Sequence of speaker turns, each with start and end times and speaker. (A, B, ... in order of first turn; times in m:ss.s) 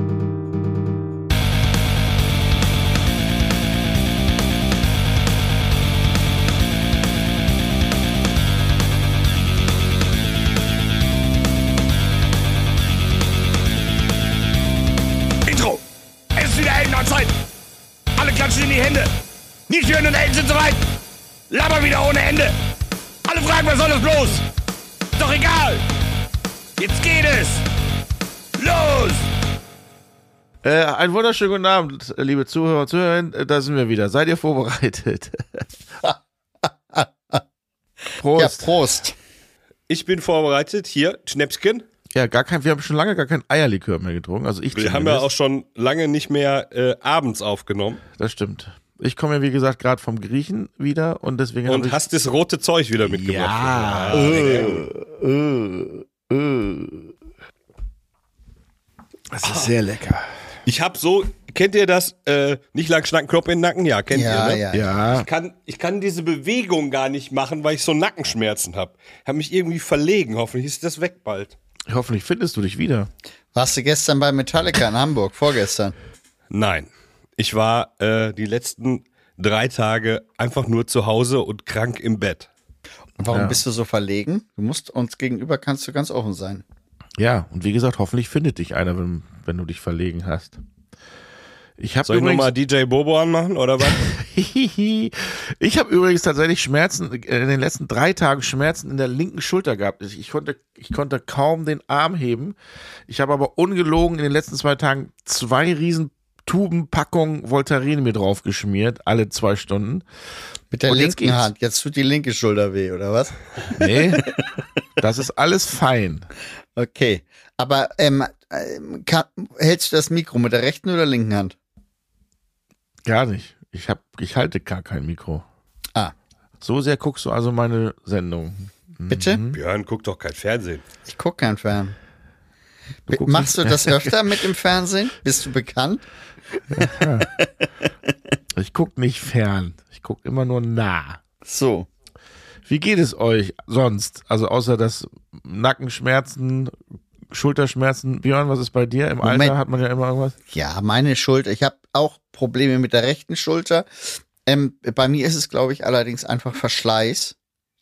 0:15.4-0:15.8 A
0:16.3-0:17.3 A
0:18.2-0:19.1 A
0:19.7-0:20.8 A
0:21.5-0:22.6 A
0:23.2-0:24.4 A
0:25.2-0:25.8 A
0:26.8-0:27.6 A
0:28.6-0:29.3 A
0:30.6-0:35.7 B
0:36.0-0:37.4 C
0:38.2-0:38.7 B
0:38.3-0:39.2 C
0:39.9-0:41.8 D
0:42.1-0:45.3 B
0:44.7-0:48.0 D
0:48.2-0:52.0 B
0:51.6-0:54.8 D
0:53.0-0:54.9 B
0:54.2-0:55.8 C
0:56.3-0:56.6 B
0:59.3-1:00.3 B
1:00.6-1:11.6 D
1:04.1-1:04.9 C
1:04.7-1:05.3 B
1:11.9-1:13.1 B
1:13.5-1:15.9 C
1:16.5-1:22.5 D
1:23.2-1:26.6 C
1:23.3-1:23.6 B
1:27.2-1:30.6 B
1:31.8-1:32.5 B
1:32.0-1:34.0 D
1:33.9-1:42.6 B
1:43.1-1:50.0 B
1:50.7-1:53.3 C
1:50.9-1:51.5 B
1:53.8-1:54.3 B
1:53.9-1:54.6 C
1:55.0-1:56.3 B
1:56.8-2:01.6 C
2:03.0-2:05.4 B
2:06.6-2:09.6 B
2:09.1-2:09.4 C
2:09.5-2:10.8 D
2:11.0-2:12.0 C
2:13.1-2:14.3 B
2:13.1-2:16.0 C
2:16.7-2:17.3 B
2:16.8-2:17.5 C
2:18.6-2:21.2 B
2:21.4-2:21.9 C
2:22.6-2:26.8 B
2:27.3-2:30.4 B
2:29.2-2:29.6 C
2:30.5-2:37.3 C